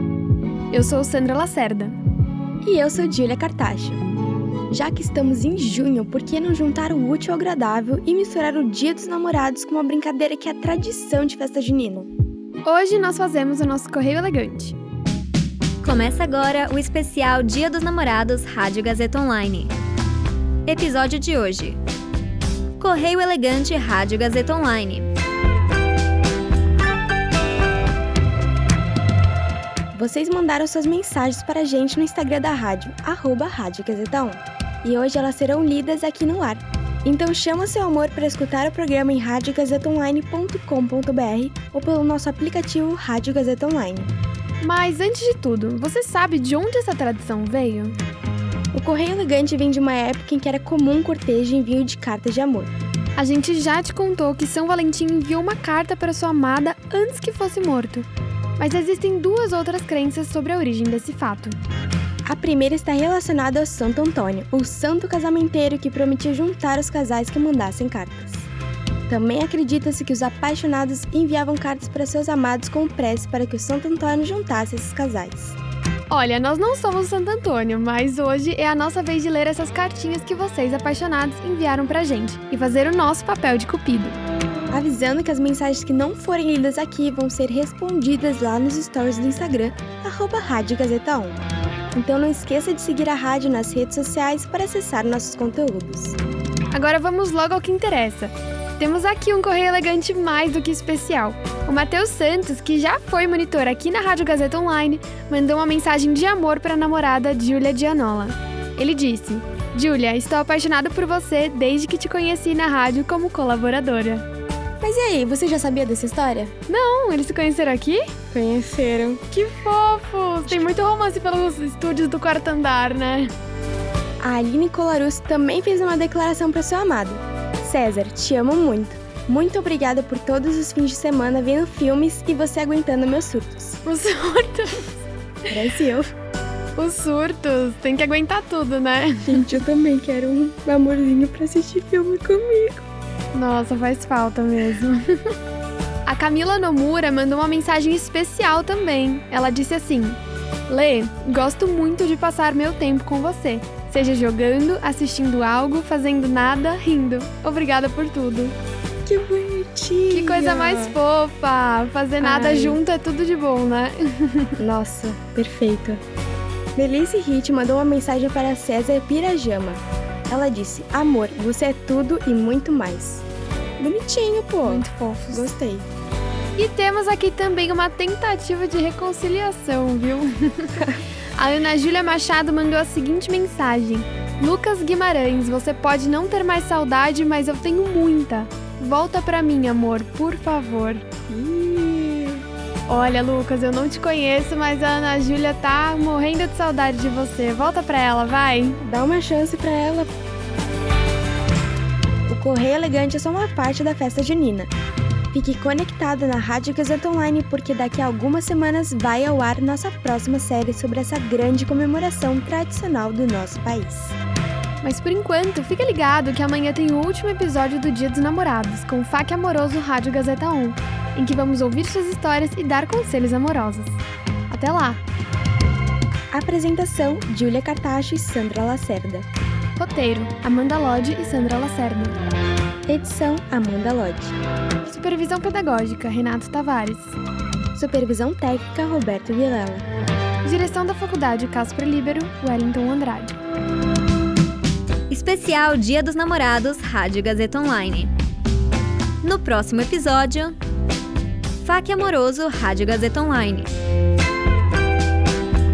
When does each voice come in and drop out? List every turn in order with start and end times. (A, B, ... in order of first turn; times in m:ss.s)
0:00.7-0:02.0 A
0:02.6-0:04.0 B
0:04.7-0:12.1 B
0:12.6-0:14.8 A
0:15.8-0:19.7 C
0:20.6-0:21.8 C
0:22.8-0:25.1 C
0:29.9-0:44.1 B
0:44.6-0:48.0 A
0:48.7-0:52.7 B
0:53.2-0:58.1 A
0:58.6-1:01.6 A
1:02.2-1:08.5 B
1:09.1-1:15.6 B
1:16.1-1:24.2 A
1:24.7-1:31.4 B
1:31.9-1:36.2 B
1:36.7-1:54.2 A
1:54.8-1:56.5 B
1:56.7-1:58.1 A
1:58.3-1:59.2 B
1:59.3-2:03.3 A
2:04.2-2:13.8 B
2:13.8-2:15.0 A
2:15.5-2:16.1 B
2:16.8-2:19.6 A
2:19.2-2:22.8 B
2:23.3-2:25.3 A
2:26.0-2:30.2 A
2:30.7-2:38.5 A
2:39.0-2:41.0 B
2:40.1-2:44.6 A
2:42.2-2:42.8 B
2:44.6-2:46.0 B
2:46.8-2:53.2 B
2:53.8-2:55.9 B
2:54.6-2:55.5 A
2:56.6-3:11.0 A
3:11.3-3:12.4 B
3:12.9-3:18.8 A
3:18.8-3:20.1 B
3:22.3-3:24.7 B
3:25.3-3:34.2 B
3:34.8-3:45.0 A
3:46.3-3:49.2 B
3:49.8-3:52.2 A
3:52.9-3:54.3 B
3:54.8-3:57.2 A
3:57.7-3:59.8 B
4:00.4-4:03.4 A
4:05.1-4:08.1 C
4:09.2-4:10.6 C
4:11.6-4:13.7 C